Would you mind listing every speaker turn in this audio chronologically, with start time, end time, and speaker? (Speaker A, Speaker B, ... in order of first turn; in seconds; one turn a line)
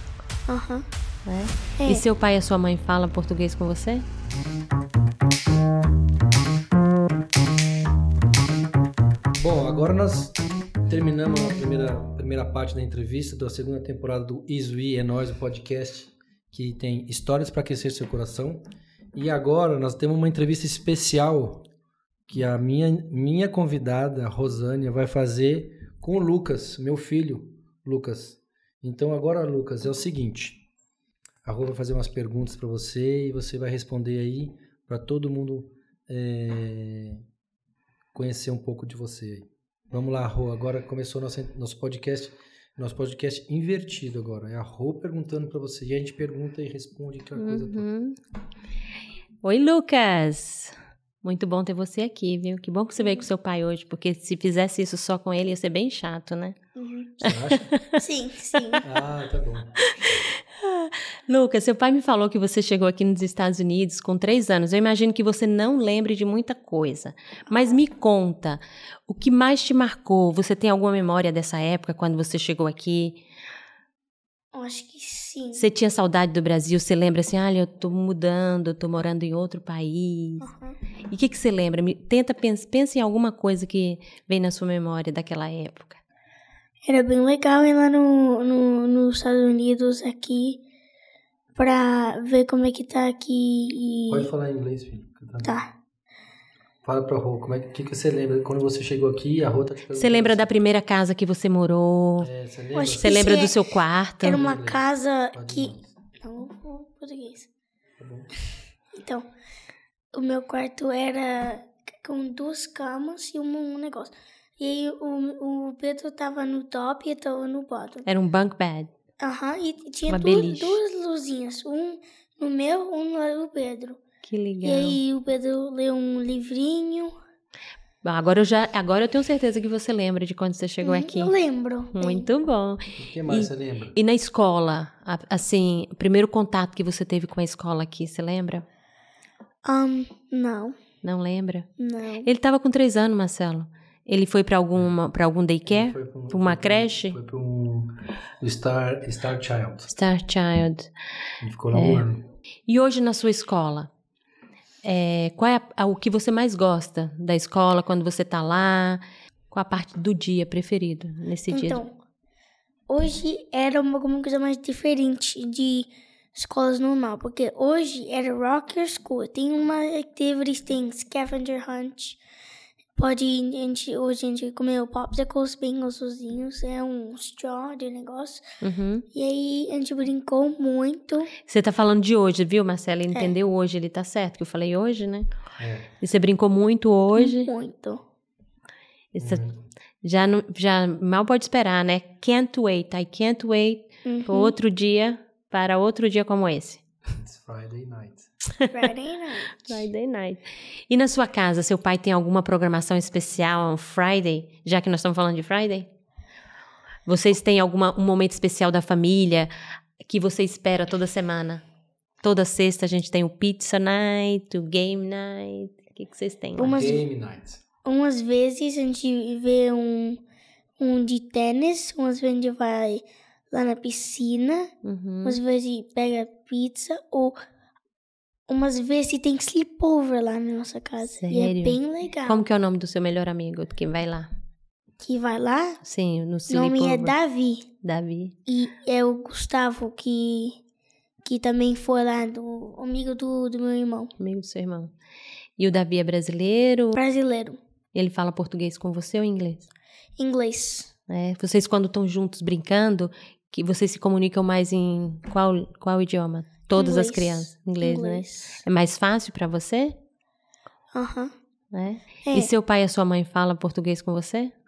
Speaker A: 0.5-0.9
Speaker B: 1.2-4.0
Speaker A: 1.8-2.0
Speaker C: 9.3-18.6
Speaker C: 19.1-21.7
Speaker C: 22.3-30.6
Speaker C: 31.4-37.2
Speaker C: 38.1-47.9
Speaker B: 47.4-48.2
Speaker B: 49.4-56.5
Speaker A: 53.0-53.2
Speaker A: 56.8-57.1
Speaker C: 57.2-57.7
Speaker B: 57.2-58.0
Speaker A: 58.0-58.8
Speaker C: 58.8-59.8
Speaker B: 59.9-73.2
Speaker A: 74.5-75.7
Speaker B: 75.5-80.5
Speaker A: 80.4-80.8
Speaker B: 81.1-86.0
Speaker A: 86.9-90.6
Speaker A: 91.5-94.3
Speaker C: 94.1-95.5
Speaker A: 95.4-95.7
Speaker C: 96.8-100.4
Speaker B: 99.9-102.3
Speaker C: 102.2-103.3
Speaker A: 102.7-103.5
Speaker B: 103.0-104.4
Speaker A: 104.2-107.5
Speaker C: 104.3-105.9
Speaker C: 108.0-108.3
Speaker A: 109.0-109.3
Speaker A: 110.1-118.0
Speaker B: 118.0-118.9
Speaker A: 119.2-124.0
Speaker B: 120.1-120.8
Speaker B: 124.2-125.0
Speaker A: 124.6-127.1
Speaker B: 128.0-131.3
Speaker A: 130.8-132.3
Speaker B: 131.9-138.6
Speaker C: 133.0-133.9
Speaker A: 139.6-140.8
Speaker B: 141.0-141.7
Speaker A: 141.8-142.3
Speaker B: 142.2-147.2
Speaker C: 145.7-149.9
Speaker B: 149.9-150.9
Speaker C: 151.4-152.2
Speaker B: 151.7-152.0
Speaker B: 152.7-153.9
Speaker B: 154.8-161.8
Speaker A: 161.5-161.9
Speaker A: 162.9-172.2
Speaker A: 173.0-178.4
Speaker B: 178.6-179.0
Speaker A: 179.1-181.3
Speaker B: 181.4-185.3
Speaker C: 185.6-185.9
Speaker B: 186.0-187.5
Speaker A: 187.2-188.0
Speaker B: 189.1-189.4
Speaker C: 189.2-189.6
Speaker B: 190.0-196.8
Speaker A: 194.1-194.5
Speaker C: 197.1-198.2
Speaker A: 198.7-199.8
Speaker B: 199.6-205.9
Speaker B: 207.1-211.6
Speaker B: 212.2-216.8
Speaker A: 216.6-217.0
Speaker C: 216.6-217.6
Speaker A: 217.8-220.2
Speaker A: 220.8-224.7
Speaker B: 224.8-225.4
Speaker A: 225.2-227.3
Speaker A: 228.5-232.4
Speaker B: 231.0-234.3
Speaker A: 235.0-235.8
Speaker B: 235.8-237.1
Speaker A: 236.5-237.7
Speaker B: 237.8-238.3
Speaker A: 238.5-240.6
Speaker A: 241.2-244.1
Speaker B: 244.2-244.9
Speaker B: 245.6-247.0
Speaker A: 246.9-247.6
Speaker B: 247.9-249.7
Speaker A: 250.2-250.9
Speaker B: 251.1-259.9
Speaker A: 256.7-258.6
Speaker A: 260.9-261.3
Speaker B: 261.7-264.5
Speaker A: 262.2-262.5